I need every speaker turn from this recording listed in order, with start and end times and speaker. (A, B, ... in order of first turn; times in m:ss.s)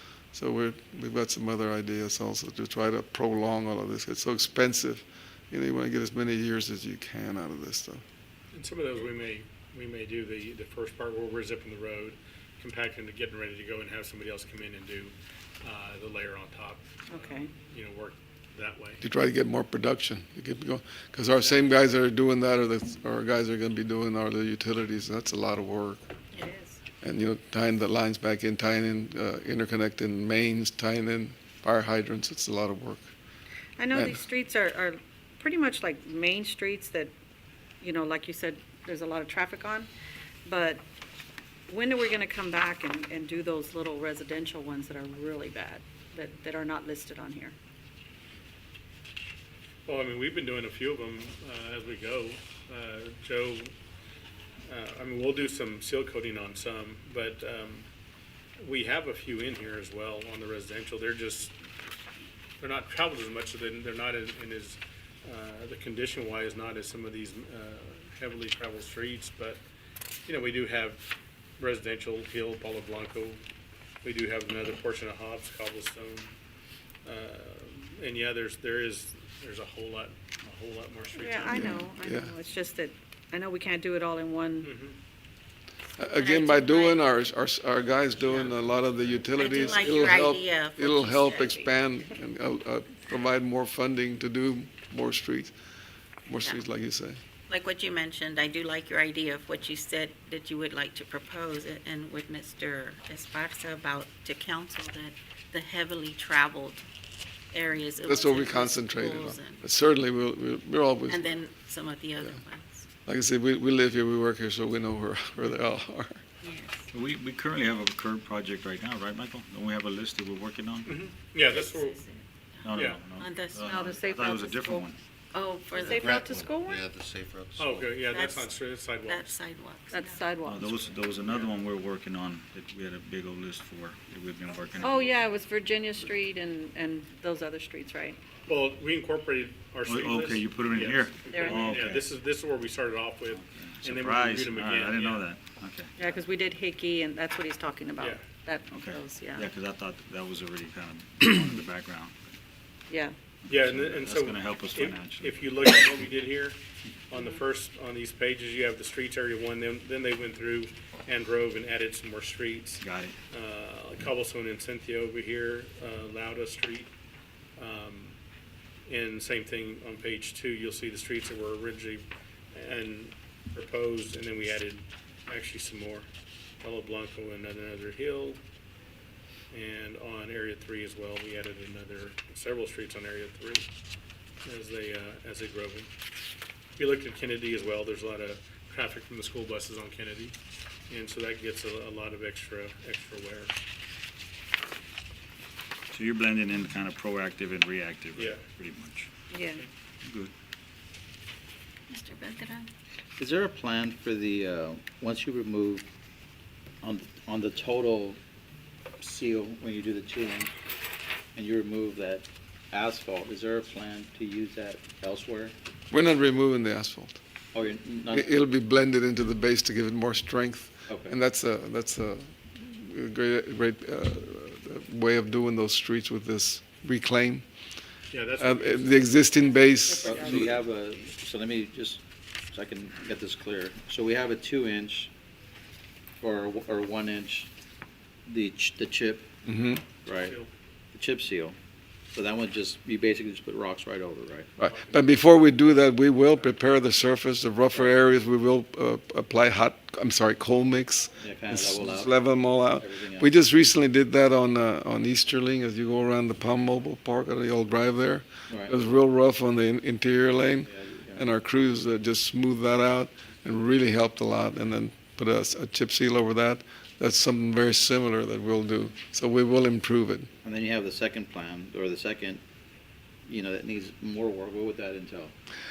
0:00.3-0:08.0 A
0:08.5-0:19.0 B
0:17.1-0:17.5 C
0:19.0-0:26.0 A
0:26.3-0:26.8 C
0:27.0-0:33.1 A
0:33.8-0:37.1 C
0:33.9-0:34.2 A
0:37.8-0:39.9 C
0:40.4-0:40.8 C
0:41.7-0:47.5 C
0:49.8-0:53.7 B
0:54.7-0:57.9 B
0:58.6-1:01.6 B
1:02.6-1:09.6 B
1:10.2-1:11.0 B
1:11.6-1:13.4 B
1:14.0-1:16.3 B
1:17.0-1:21.8 B
1:21.1-1:24.7 C
1:21.5-1:22.3 A
1:24.6-1:25.0 B
1:26.0-1:35.5 A
1:26.2-1:27.0 D
1:28.2-1:28.5 D
1:29.4-1:31.7 D
1:36.3-1:37.2 A
1:37.5-1:46.8 D
1:47.5-1:49.6 D
1:48.0-1:51.3 A
1:51.1-1:52.8 D
1:53.0-1:56.2 A
1:56.4-1:56.9 D
1:56.9-2:00.9 E
2:00.8-2:01.9 B
2:01.4-2:03.7 D
2:02.6-2:05.0 E
2:02.7-2:03.0 B
2:03.6-2:04.9 C
2:05.3-2:06.4 D
2:05.7-2:06.8 C
2:05.9-2:07.9 F
2:07.6-2:09.3 B
2:08.0-2:10.4 D
2:09.9-2:10.7 C
2:10.4-2:15.3 E
2:11.3-2:11.5 B
2:14.6-2:14.9 D
2:14.8-2:18.2 C
2:18.5-2:25.2 B
2:19.8-2:21.9 E
2:21.3-2:22.0 C
2:23.3-2:25.9 E
2:26.0-2:29.5 C
2:28.0-2:28.2 B
2:28.7-2:32.2 E
2:32.9-2:33.2 C
2:33.4-2:35.7 E
2:33.5-2:36.6 B
2:37.1-2:46.9 B
2:42.8-2:43.1 E
2:47.6-2:48.1 B
2:48.9-2:56.1 B
2:56.6-2:58.4 B
2:59.5-3:03.6 B
3:04.4-3:05.9 B
3:06.8-3:10.3 B
3:10.9-3:13.5 B
3:15.9-3:19.1 E
3:18.1-3:18.4 B
3:19.3-3:19.6 C
3:20.0-3:20.3 E
3:21.9-3:22.7 D
3:23.2-3:25.8 G
3:26.8-3:28.2 G
3:29.0-3:30.5 G
3:31.3-3:35.5 G
3:35.9-3:37.2 A
3:37.5-3:38.4 G
3:38.1-3:47.4 A
3:40.9-3:41.1 G
3:48.1-3:49.2 B
3:48.4-3:50.6 A
3:49.8-3:50.5 C
3:50.0-3:55.1 G
3:56.2-3:57.5 G
3:58.2-3:59.3 G
3:59.4-3:59.8 A
4:00.0-4:00.4 G
4:00.0-4:00.5 B
4:00.9-4:01.6 G
4:02.1-4:04.5 G
4:04.6-4:30.3 A
4:04.6-4:05.2 B
4:11.2-4:13.3 G
4:18.5-4:18.7 G
4:20.6-4:21.2 G
4:30.4-4:32.4 G
4:33.3-4:35.3 G